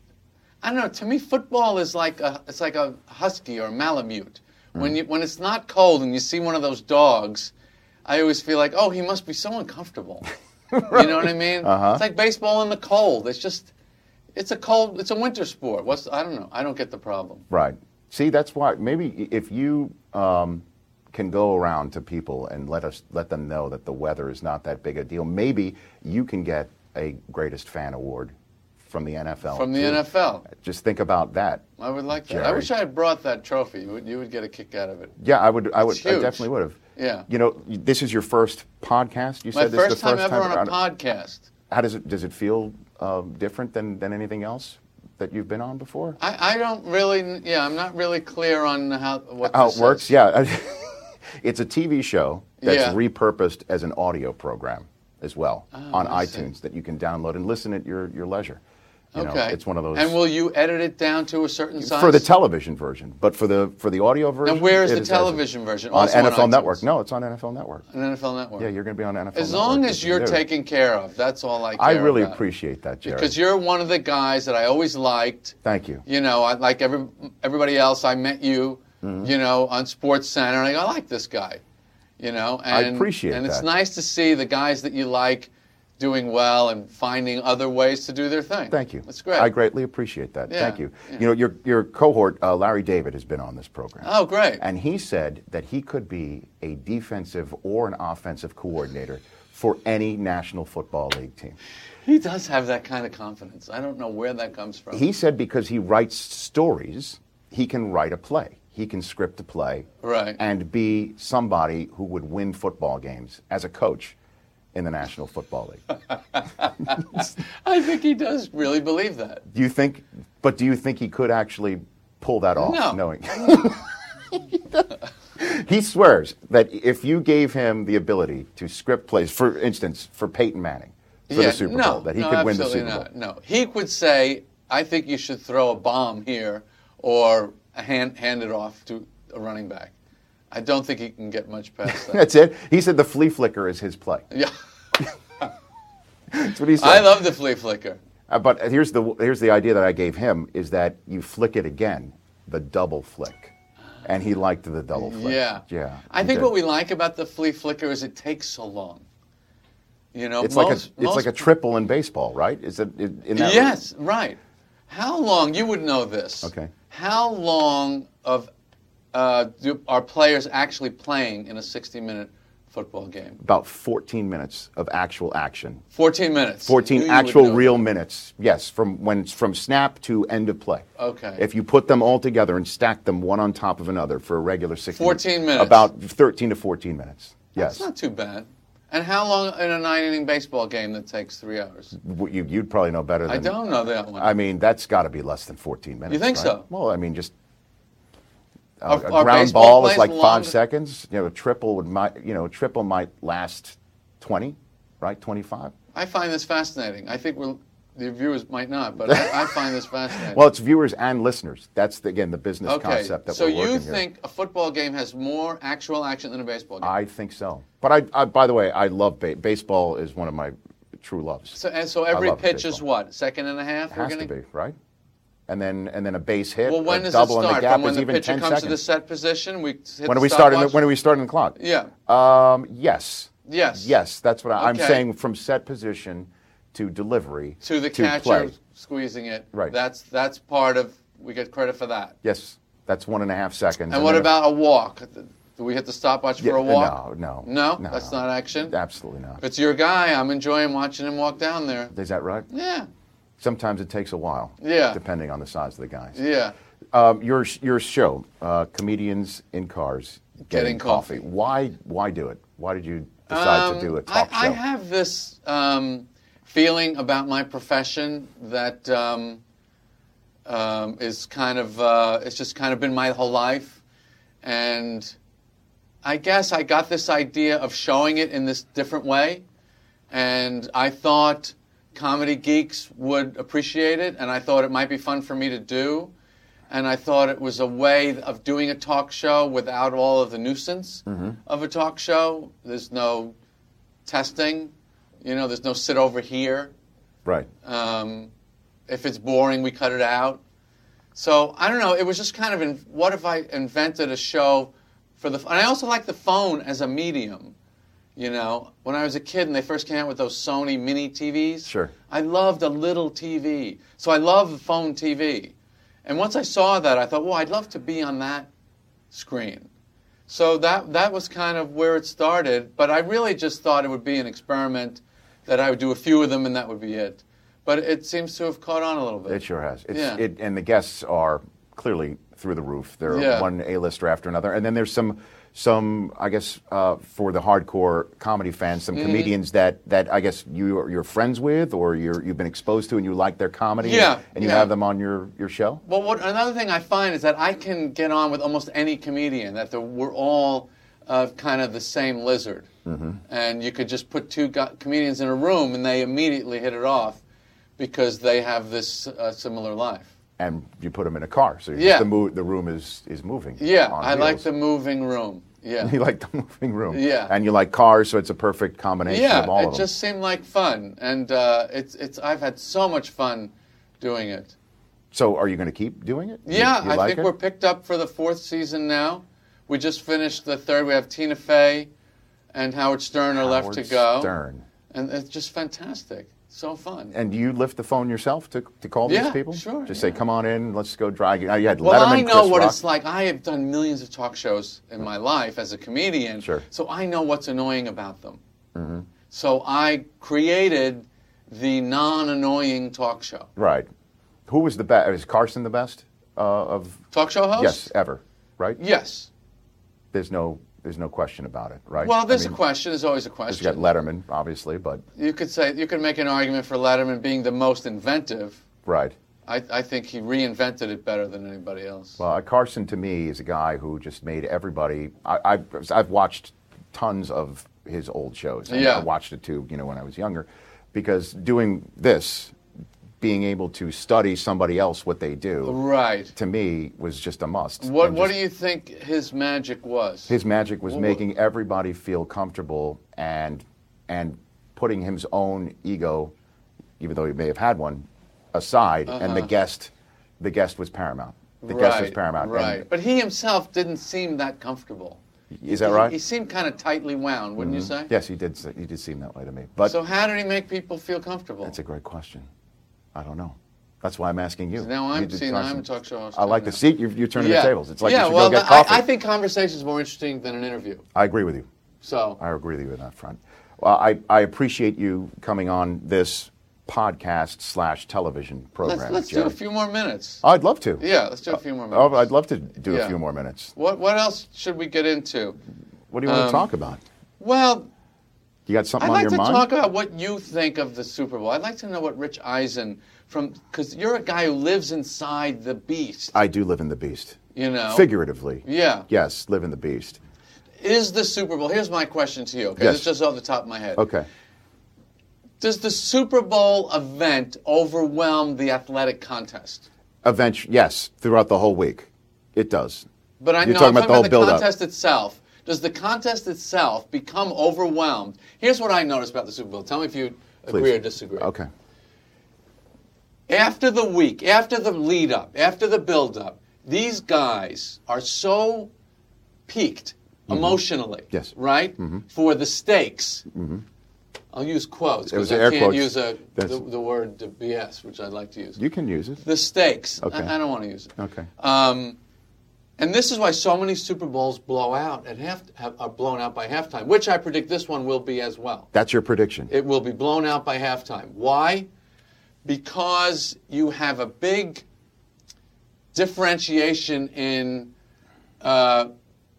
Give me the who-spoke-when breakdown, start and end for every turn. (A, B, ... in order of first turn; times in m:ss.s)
0:00.6-0:07.5 A
0:08.0-0:10.3 A
0:10.7-0:12.0 B
0:10.9-0:13.7 A
0:14.3-0:17.4 A
0:17.5-0:28.3 B
0:28.8-0:31.6 B
0:29.5-0:30.5 A
0:31.8-0:35.1 A
0:32.2-0:32.7 B
0:35.2-0:36.8 B
0:35.8-0:37.3 A
0:37.3-0:40.7 B
0:39.5-0:41.5 A
0:41.7-0:46.2 B
0:46.2-0:50.1 A
0:49.4-0:58.6 B
0:52.6-0:53.0 A
0:55.7-0:56.5 A
0:59.1-1:00.2 B
0:59.1-1:02.3 A
1:01.8-1:07.8 B
1:04.4-1:06.8 A
1:07.9-1:08.7 A
1:08.6-1:10.4 B
1:09.3-1:12.4 A
1:11.8-1:13.3 B
1:13.0-1:15.5 A
1:15.6-1:16.0 B
1:16.0-1:21.6 A
1:19.0-1:19.3 B
1:22.2-1:29.5 A
1:22.7-1:23.6 B
1:28.7-1:41.6 B
1:30.5-1:31.2 A
1:34.0-1:34.6 A
1:42.0-1:45.0 A
1:44.9-1:54.2 B
1:50.0-1:50.4 A
1:54.7-1:55.8 B
1:56.6-1:59.4 A
1:59.5-2:13.0 B
2:02.6-2:03.7 A
2:11.3-2:19.9 A
2:20.5-2:22.2 A
2:21.9-2:24.2 B
2:26.3-2:27.1 B
2:26.8-2:28.0 A
2:28.3-2:33.5 B
2:34.0-2:36.5 B
2:34.9-2:39.0 A
2:40.1-2:41.5 A
2:40.4-2:43.7 B
2:43.3-2:44.4 A
2:44.9-2:48.5 A
2:46.4-2:46.7 B
2:49.1-2:53.4 A
2:53.4-2:55.8 B
2:55.9-2:57.8 A
2:56.6-3:00.8 B
3:01.0-3:01.4 A
3:01.4-3:07.9 B
3:04.9-3:05.9 A
3:07.5-3:11.9 A
3:12.0-3:17.3 B
3:13.3-3:14.4 A
3:16.1-3:16.6 A
3:18.8-3:25.7 B
3:18.9-3:20.5 A
3:25.9-3:30.4 A
3:29.0-3:29.6 B
3:30.3-3:34.0 B
3:32.6-3:36.9 A
3:36.8-3:41.6 B
3:41.6-3:44.3 A
3:42.1-3:42.8 B
3:43.9-3:44.8 B
3:45.5-3:48.8 B
3:46.6-3:50.8 A
3:50.0-3:51.6 B
3:51.6-3:51.9 A
3:52.1-3:58.5 B
3:53.5-3:53.9 A
3:54.6-3:55.0 A
3:57.6-4:02.2 A
4:02.2-4:04.3 B
4:03.9-4:08.7 A
4:06.4-4:09.4 B
4:09.4-4:11.9 A
4:11.9-4:12.5 B
4:12.5-4:12.9 A
4:13.4-4:16.2 B
4:14.6-4:15.0 A
4:16.1-4:16.5 A
4:16.9-4:24.6 B
4:20.4-4:21.2 A
4:23.3-4:29.4 A
4:30.4-4:33.8 A
4:34.4-4:35.1 A
4:36.0-4:39.4 A
4:40.1-4:46.1 A
4:46.7-4:53.3 A
4:51.1-4:51.4 B
4:54.0-4:54.7 A
4:55.2-4:56.7 A
4:57.6-4:58.3 A
4:58.9-5:00.4 A
5:01.1-5:07.5 A
5:08.2-5:15.5 A
5:11.6-5:11.9 B
5:16.0-5:18.5 A
5:19.1-5:19.7 A
5:20.3-5:30.2 A
5:29.3-5:45.8 B
5:33.1-5:33.5 A
5:38.9-5:39.3 A
5:43.8-5:44.7 A
5:45.8-5:52.7 A
5:52.8-5:53.2 B
5:53.3-5:57.2 A
5:57.8-6:00.1 A
6:00.4-6:04.4 B
6:01.8-6:02.1 A
6:03.6-6:06.0 A
6:05.8-6:09.9 B
6:06.9-6:07.3 A
6:09.1-6:14.5 A
6:15.1-6:17.3 B
6:16.4-6:21.9 A
6:22.5-6:24.3 A
6:23.3-6:24.6 B
6:24.9-6:27.1 A
6:27.1-6:32.8 B
6:29.0-6:30.2 A
6:31.8-6:38.4 A
6:38.7-6:39.1 B
6:39.3-6:43.5 A
6:43.6-6:43.9 B
6:44.5-6:47.0 B
6:47.1-6:47.9 A
6:47.6-6:48.8 B
6:48.8-6:49.3 A
6:50.1-6:52.6 B
6:52.0-6:53.9 A
6:53.5-6:55.0 B
6:55.2-6:58.6 A
6:58.8-6:59.1 B
6:59.4-7:02.2 A
7:02.2-7:12.5 B
7:08.7-7:09.1 A
7:13.2-7:15.8 B
7:15.6-7:16.3 A
7:16.3-7:18.3 B
7:17.8-7:20.3 A
7:20.3-7:26.3 B
7:20.9-7:21.2 A
7:27.0-7:32.8 B
7:29.1-7:29.5 A
7:31.6-7:38.1 A
7:35.6-7:36.1 B
7:37.6-7:40.0 B
7:39.8-7:41.7 A
7:41.6-7:42.5 B
7:43.1-7:49.0 B
7:44.8-7:46.8 A
7:47.3-7:51.0 A
7:51.1-7:51.7 B
7:52.0-7:52.4 A
7:52.4-7:59.5 B
7:58.8-8:00.4 A
8:00.4-8:03.7 B
8:01.0-8:02.3 A
8:02.8-8:03.2 A
8:03.7-8:05.6 A
8:06.1-8:07.0 B
8:06.2-8:06.7 A
8:07.4-8:07.9 A
8:08.7-8:09.7 B
8:09.0-8:16.4 A
8:16.3-8:17.4 B
8:17.5-8:18.1 A
8:17.9-8:20.2 B
8:18.6-8:19.1 A
8:20.8-8:24.0 A
8:22.8-8:23.1 B
8:24.0-8:24.3 B
8:25.6-8:29.9 A
8:30.2-8:33.0 B
8:33.4-8:41.5 A
8:33.6-8:34.7 B
8:40.7-8:41.7 B
8:43.5-8:48.9 A
8:49.7-8:53.4 A
8:50.5-8:52.2 B
8:53.5-8:53.8 B
8:54.5-8:58.8 A
8:55.3-8:56.8 B
8:58.8-8:59.4 B
8:59.4-9:02.2 A
9:00.2-9:00.5 B
9:01.2-9:01.5 B
9:03.0-9:08.9 A
9:08.9-9:09.7 B
9:09.7-9:11.9 A
9:12.6-9:14.8 A
9:16.1-9:17.9 A
9:18.6-9:19.1 A